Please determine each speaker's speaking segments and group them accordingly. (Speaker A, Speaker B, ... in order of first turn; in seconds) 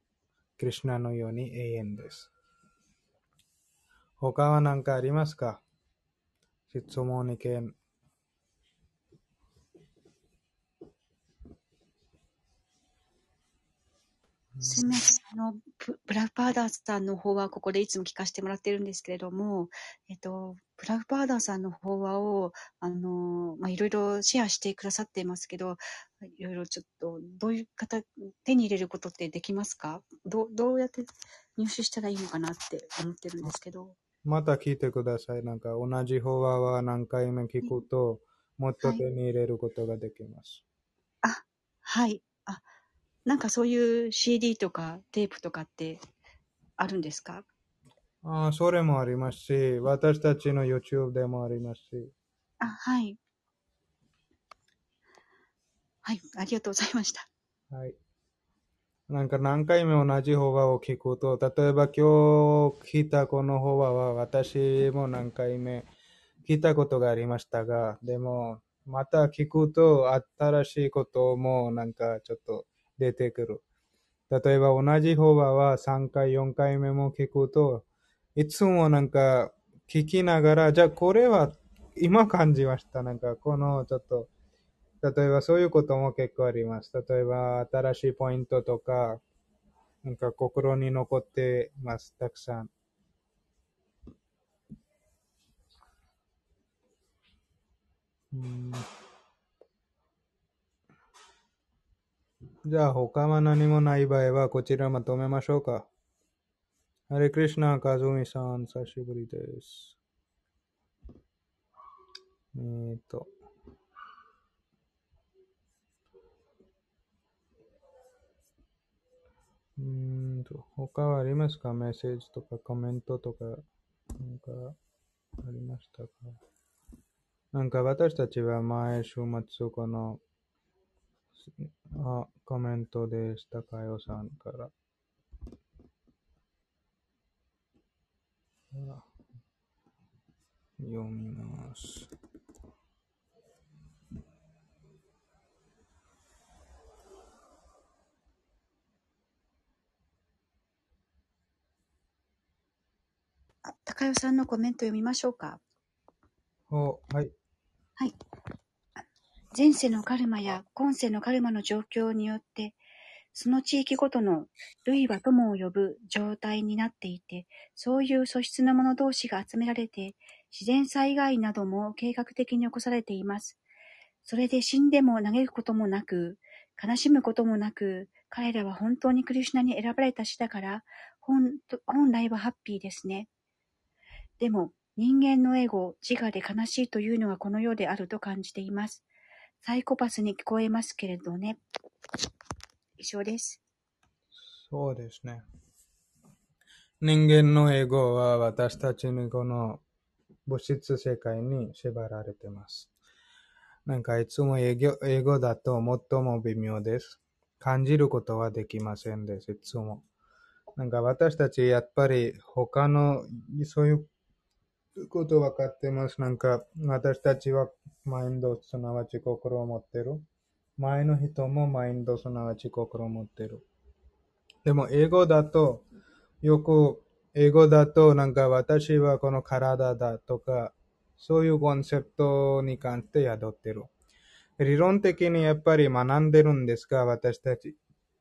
Speaker A: 0.6-2.3, 4.2-5.6, 6.7-7.7, 14.6-14.9, 34.2-40.6, 48.2-52.1, 59.1-65.8, 66.4-73.6, 74.3-77.8, 78.4-84.3, 85.0-89.2, 90.0-92.7, 98.3-98.8, 102.7-105.8, 107.1-109.9, 112.5-113.3, 119.8-123.6, 124.2-124.7, 125.4-126.4, 127.5-130.2, 131.6-134.7, 138.7-139.0, 140.8-142.1, 156.7-157.3, 194.6-195.4, 197.0-199.8, 200.5-202.9, 203.9-210.0, 210.8-214.1, 215.0-220.2, 220.8-223.6, 224.7-225.8, 226.4-233.9, 234.6-237.7
Speaker B: 14.6-34.0, 41.2-42.6, 43.2-46.0, 46.8-47.5, 52.6-53.2, 56.0-57.3, 153.6-155.6, 159.5-162.8, 163.3-173.6, 174.2-183.3, 184.4-189.0, 189.6-191.6, 193.0-193.6